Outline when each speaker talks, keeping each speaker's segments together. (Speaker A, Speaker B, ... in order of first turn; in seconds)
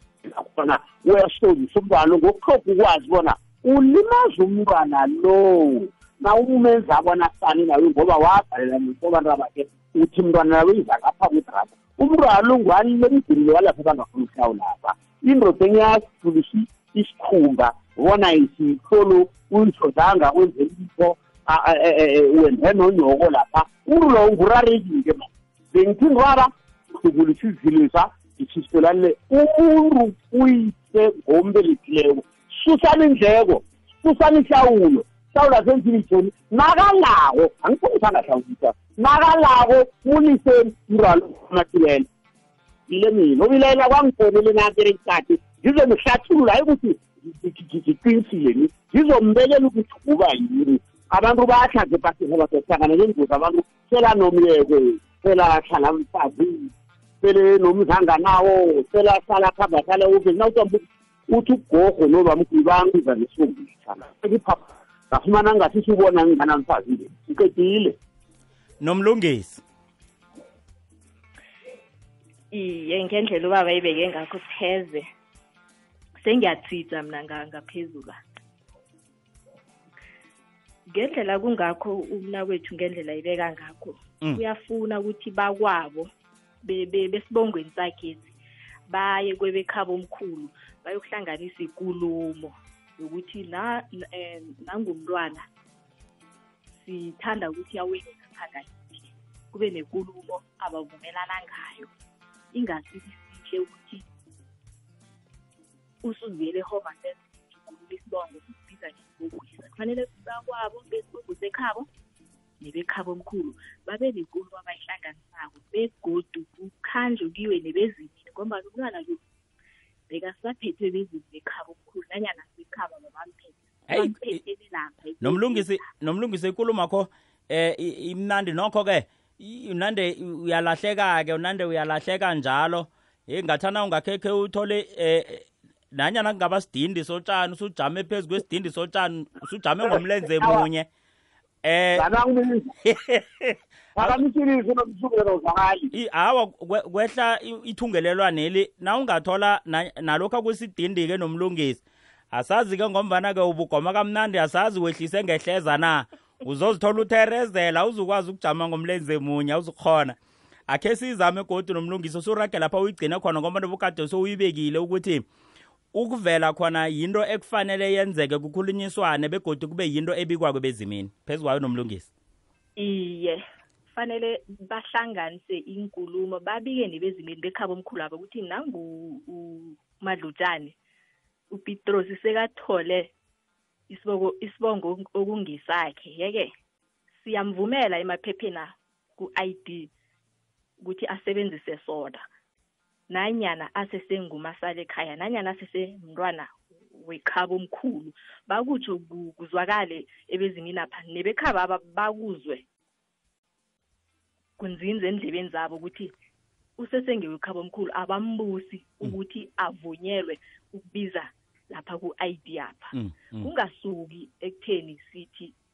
Speaker A: 0.2-42.1, 42.9-68.0, 140.4-140.7, 141.9-142.7, 143.9-145.9
Speaker B: 68.8-69.6, 123.9-124.3, 125.2-140.9, 141.6-142.1, 142.8-144.2, 145.9-151.8, 152.3-160.2, 160.7-165.2, 165.9-172.1, 212.9-213.5
Speaker C: 72.5-75.0, 76.2-78.2, 80.9-86.1, 86.6-88.3, 88.9-95.5, 96.8-101.9, 102.5-104.0, 106.0-111.9, 112.6-119.2, 120.1-125.8, 172.8-180.8, 181.5-183.1, 183.9-186.5, 187.2-189.9, 190.8-192.2, 193.1-202.6, 204.6-206.1, 206.8-215.5